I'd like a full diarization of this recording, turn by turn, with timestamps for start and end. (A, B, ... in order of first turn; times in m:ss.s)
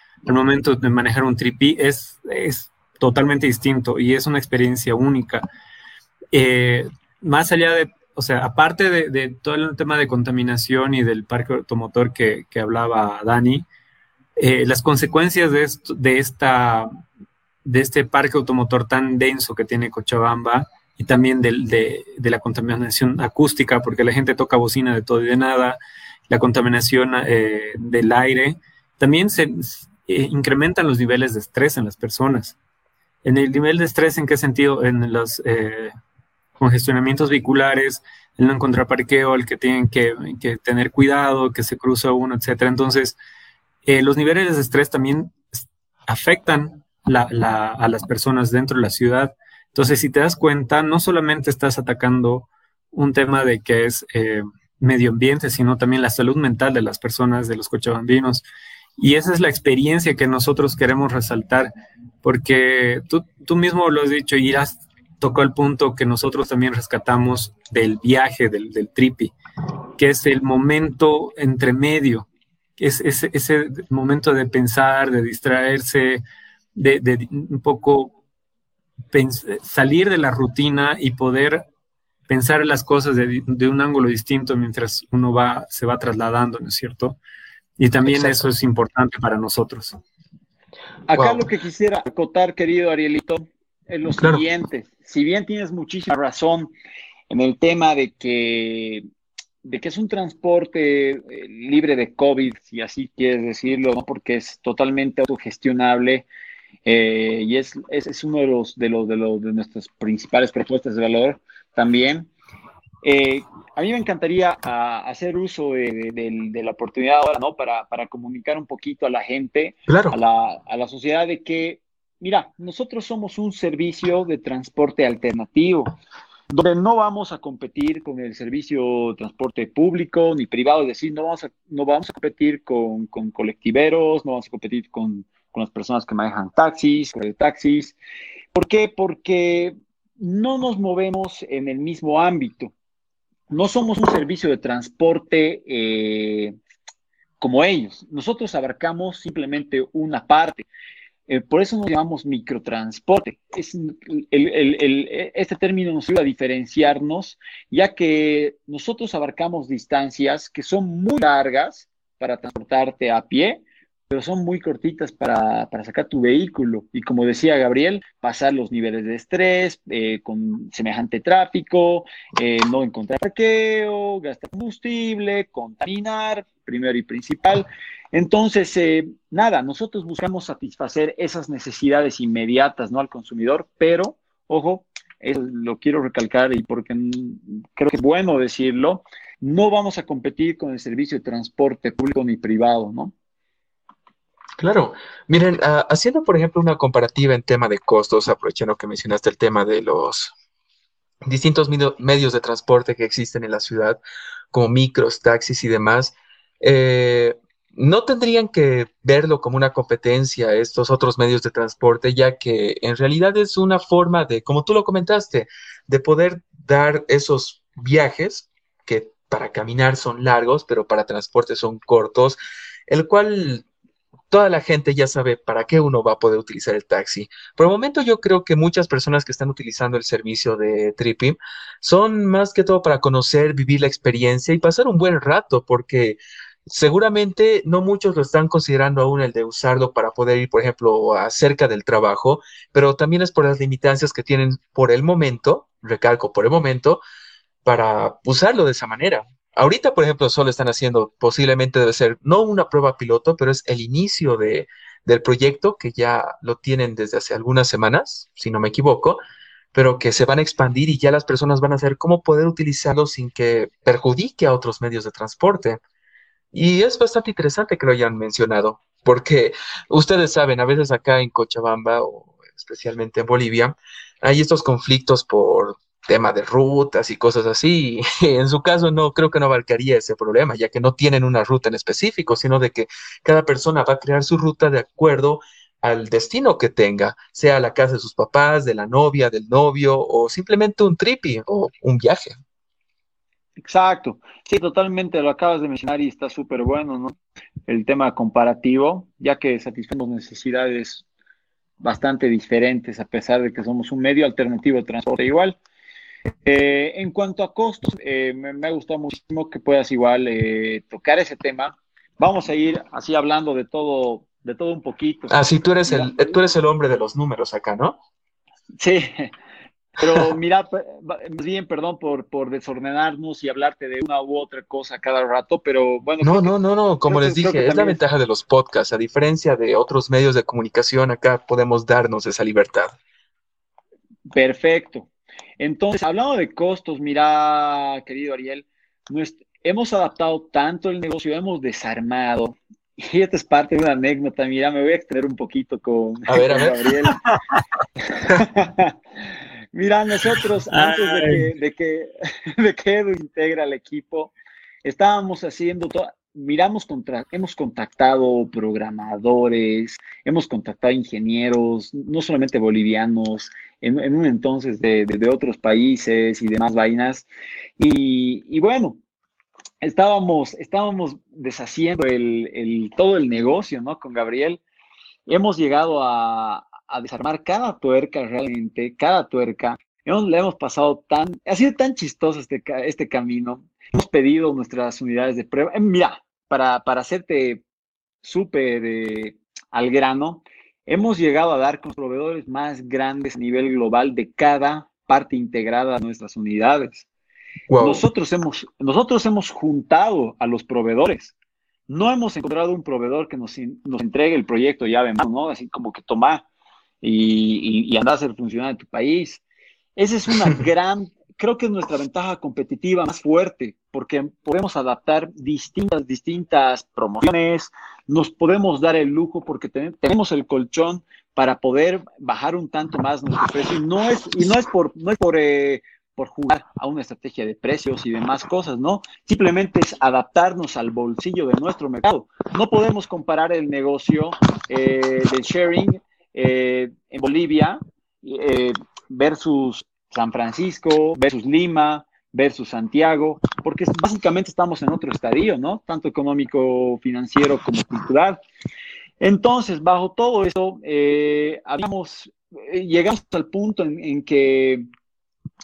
0:00.3-0:05.5 A
0:06.3-0:13.7 A
0:14.4-0:17.0 A
0:17.6-0:25.8 A
0:26.3-0:32.6 A
0:33.2-0:35.9 A
0:36.6-0:43.2 A
0:43.8-0:58.4 A
0:59.0-1:01.7 A
1:02.2-1:09.3 A
1:10.0-1:12.3 A
1:12.8-1:16.2 A
1:16.8-1:18.2 A
1:19.1-1:21.6 A
1:22.3-1:27.2 A
1:27.8-1:30.0 A
1:28.0-1:28.5 B
1:31.1-1:36.7 C
1:31.1-1:31.5 B
1:37.3-1:39.0 C
1:39.6-1:46.3 C
1:46.8-1:52.3 C
1:53.0-2:06.0 C
1:59.9-2:00.2 B
2:06.5-2:18.0 C
2:18.5-2:22.7 C
2:23.5-2:26.6 C
2:27.4-2:30.7 C
2:31.3-3:13.1 C
3:14.6-3:20.3 B
3:21.3-3:24.0 B
3:24.5-3:43.6 B
3:44.3-4:07.0 B
4:07.6-4:19.2 B
4:19.7-4:25.8 B
4:26.5-4:52.4 B
4:53.6-5:01.0 C
5:01.8-5:05.6 C
5:06.4-5:15.3 C
5:15.3-5:18.0 B
5:15.9-5:16.4 C
5:18.8-5:19.3 C
5:20.0-5:26.5 C
5:26.2-5:33.0 B
5:27.1-5:28.0 C
5:34.3-5:47.2 C
5:46.3-5:46.8 B
5:48.2-5:48.9 C
5:49.7-5:54.3 C
5:50.7-5:51.5 A
5:54.8-6:07.3 C
6:07.8-6:09.0 C
6:09.8-6:14.6 C
6:15.3-6:27.6 C
6:28.2-6:37.1 C
6:37.7-6:38.0 B
6:37.8-6:41.3 C
6:41.9-6:46.5 C
6:47.0-6:49.4 C
6:50.0-7:28.4 C
7:29.2-7:34.9 C